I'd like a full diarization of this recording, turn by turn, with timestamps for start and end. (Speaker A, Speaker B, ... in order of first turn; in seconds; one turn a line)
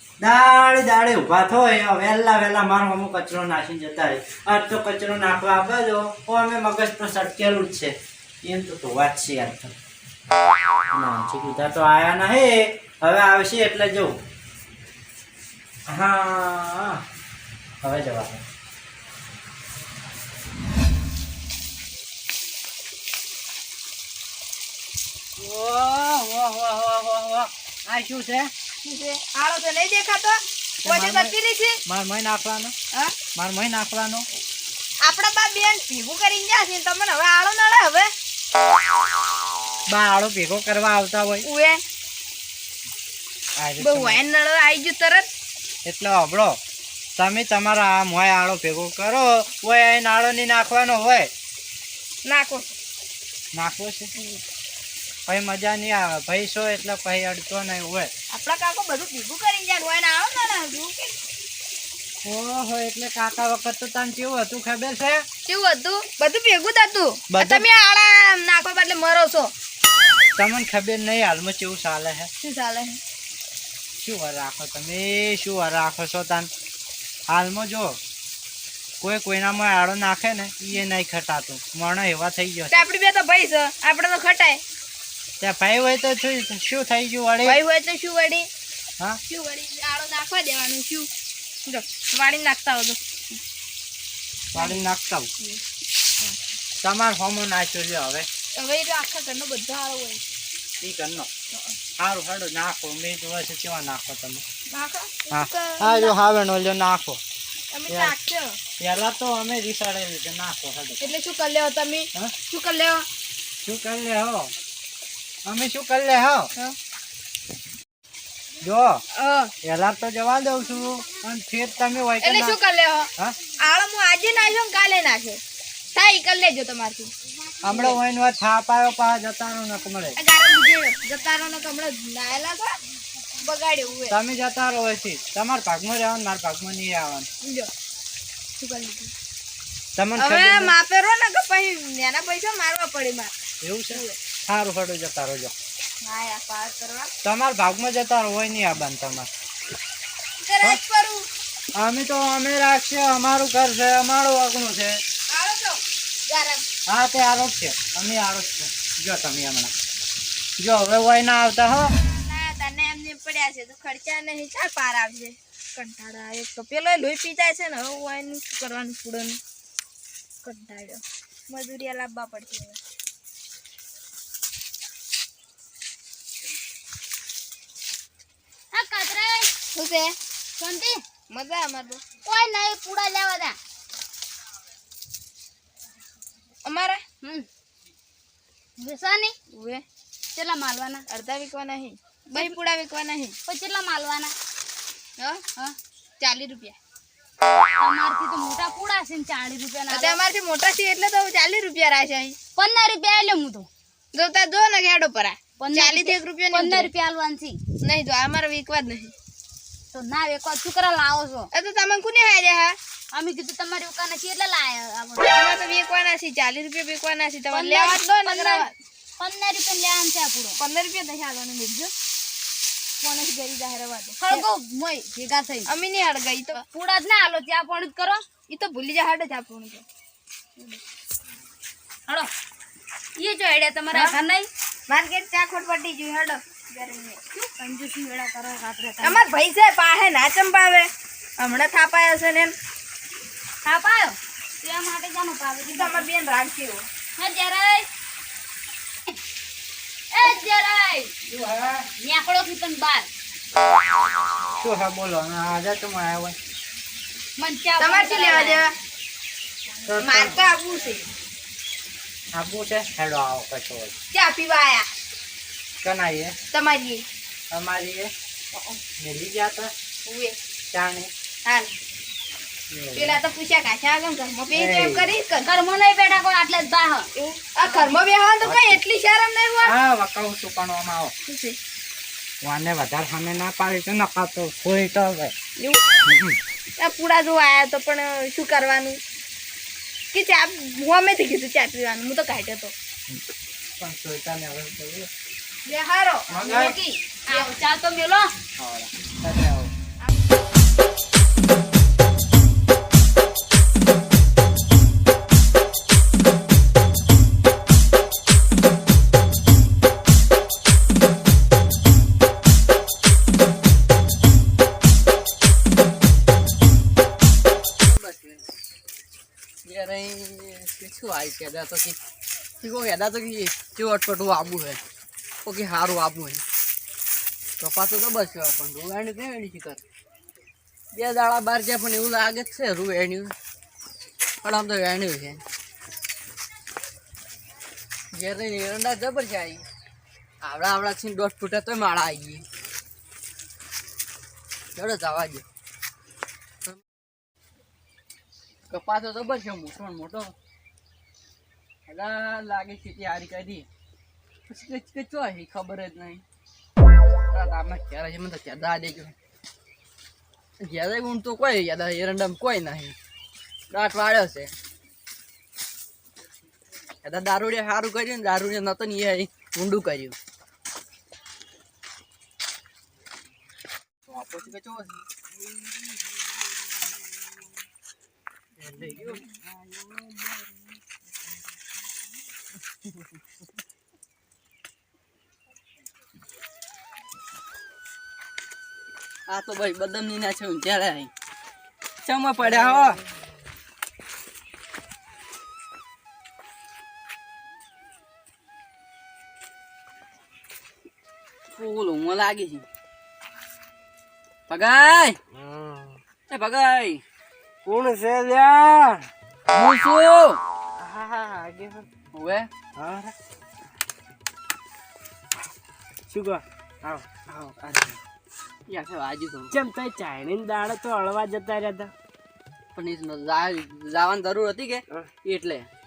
Speaker A: 0.2-9.7
Speaker A: 10.9-14.2
Speaker A: 15.9-17.0
Speaker A: 17.8-18.4
Speaker A: 25.4-28.5
Speaker B: 28.8-31.8
Speaker A: 30.8-31.3
Speaker A: 31.9-32.7
Speaker A: 33.3-34.3
Speaker B: 35.0-38.1
Speaker A: 39.9-41.5
Speaker B: 41.4-41.8
Speaker A: 43.6-44.2
Speaker B: 43.8-45.3
Speaker A: 45.9-46.6
Speaker A: 47.2-51.3
Speaker B: 52.2-52.6
Speaker A: 53.5-54.1
Speaker A: 55.3-58.1
Speaker B: 58.3-61.2
Speaker A: 62.2-65.2
Speaker B: 65.5-69.5
Speaker A: 67.3-67.7
Speaker A: 70.4-72.3
Speaker B: 72.4-73.0
Speaker A: 74.0-76.5
Speaker A: 77.3-78.0
Speaker A: 79.0-82.8
Speaker B: 82.7-84.6
Speaker A: 85.4-87.6
Speaker B: 87.5-88.5
Speaker B: 89.3-91.1
Speaker B: 91.7-93.0
Speaker A: 94.5-95.3
Speaker B: 94.6-94.8
Speaker A: 96.8-98.3
Speaker B: 98.6-100.2
Speaker A: 100.8-101.3
Speaker A: 102.0-104.4
Speaker B: 104.7-106.2
Speaker A: 105.3-107.2
Speaker B: 107.7-108.6
Speaker A: 107.9-108.1
Speaker A: 108.8-111.1
Speaker B: 111.0-113.1
Speaker A: 113.6-114.5
Speaker A: 115.5-116.5
Speaker A: 118.6-119.0
Speaker B: 119.2-119.5
Speaker A: 119.6-122.6
Speaker B: 122.2-123.1
Speaker B: 123.6-125.4
Speaker B: 125.9-127.1
Speaker A: 127.6-130.2
Speaker B: 127.7-128.0
Speaker B: 130.2-132.7
Speaker B: 133.4-134.2
Speaker A: 134.1-137.3
Speaker B: 137.4-137.7
Speaker B: 138.6-139.1
Speaker A: 140.0-140.8
Speaker B: 140.2-143.3
Speaker A: 143.6-145.5
Speaker B: 146.0-147.1
Speaker A: 147.2-149.3
Speaker B: 150.4-151.2
Speaker A: 151.8-155.0
Speaker B: 155.3-156.6
Speaker A: 156.9-159.7
Speaker A: 160.6-161.9
Speaker B: 162.2-169.4
Speaker B: 170.4-172.8
Speaker C: 178.7-179.5
Speaker B: 179.8-180.2
Speaker C: 180.6-181.0
Speaker B: 181.3-182.0
Speaker C: 182.3-183.5
Speaker B: 186.7-187.0
Speaker C: 188.8-189.3
Speaker B: 189.5-189.8
Speaker C: 190.3-191.0
Speaker B: 191.1-193.3
Speaker C: 193.5-194.3
Speaker B: 196.2-196.8
Speaker C: 197.8-200.1
Speaker B: 199.9-202.4
Speaker C: 202.6-203.7
Speaker B: 204.1-206.9
Speaker C: 205.6-207.6
Speaker B: 207.8-209.1
Speaker C: 209.9-211.5
Speaker B: 211.5-212.8
Speaker C: 213.1-215.2
Speaker B: 215.3-218.8
Speaker C: 217.5-218.7
Speaker C: 219.2-220.5
Speaker B: 220.6-221.9
Speaker B: 223.0-224.4
Speaker C: 224.2-225.6
Speaker B: 225.7-226.6
Speaker C: 226.7-228.2
Speaker B: 228.5-229.8
Speaker C: 233.2-234.5
Speaker B: 233.9-234.2
Speaker B: 234.9-237.2
Speaker C: 237.4-239.2
Speaker B: 239.0-242.5
Speaker C: 243.7-246.0
Speaker B: 245.7-246.8
Speaker C: 247.2-247.8
Speaker C: 250.1-251.1
Speaker A: 251.3-251.9
Speaker C: 252.0-253.1
Speaker A: 254.5-256.4
Speaker C: 257.4-258.6
Speaker B: 257.8-258.7
Speaker A: 259.8-260.4
Speaker B: 260.0-261.0
Speaker A: 262.3-263.9
Speaker B: 264.1-264.9
Speaker A: 265.8-266.3
Speaker B: 266.5-267.0
Speaker A: 267.5-268.1
Speaker A: 269.0-269.7
Speaker B: 270.1-270.4
Speaker A: 270.7-271.1
Speaker A: 272.7-273.2
Speaker B: 272.9-275.5
Speaker A: 274.5-275.1
Speaker C: 275.4-277.1
Speaker B: 277.1-279.7
Speaker A: 278.4-278.8
Speaker A: 279.6-281.1
Speaker B: 281.2-281.6
Speaker A: 282.4-285.3
Speaker A: 286.1-286.4
Speaker B: 286.8-289.0
Speaker B: 290.1-292.7
Speaker A: 293.8-295.1
Speaker B: 295.6-296.3
Speaker A: 296.3-296.8
Speaker C: 296.4-298.2
Speaker B: 297.3-297.5
Speaker A: 298.6-299.7
Speaker D: 317.8-318.4
Speaker D: 319.6-322.0
Speaker D: 322.6-324.8
Speaker D: 325.4-326.4
Speaker D: 327.6-329.8
Speaker D: 330.9-333.3
Speaker D: 334.4-335.4
Speaker D: 338.1-339.6
Speaker D: 340.4-342.4
Speaker D: 344.7-345.4
Speaker D: 348.7-350.3
Speaker D: 351.9-353.7
Speaker D: 354.5-356.2
Speaker D: 357.3-359.1
Speaker D: 360.6-362.9
Speaker D: 363.7-364.5
Speaker D: 367.0-370.1
Speaker D: 374.1-374.9
Speaker A: 378.7-379.0
Speaker D: 378.8-379.2
Speaker D: 389.3-391.1
Speaker D: 392.0-393.0
Speaker D: 401.5-402.6
Speaker D: 404.5-405.2
Speaker E: 405.3-406.0
Speaker D: 406.3-407.0
Speaker E: 407.6-409.1
Speaker D: 409.5-410.4
Speaker E: 410.8-411.9
Speaker D: 412.1-412.5
Speaker E: 412.8-413.1
Speaker E: 416.1-418.0
Speaker D: 418.7-419.5
Speaker E: 419.5-421.9
Speaker D: 422.7-425.7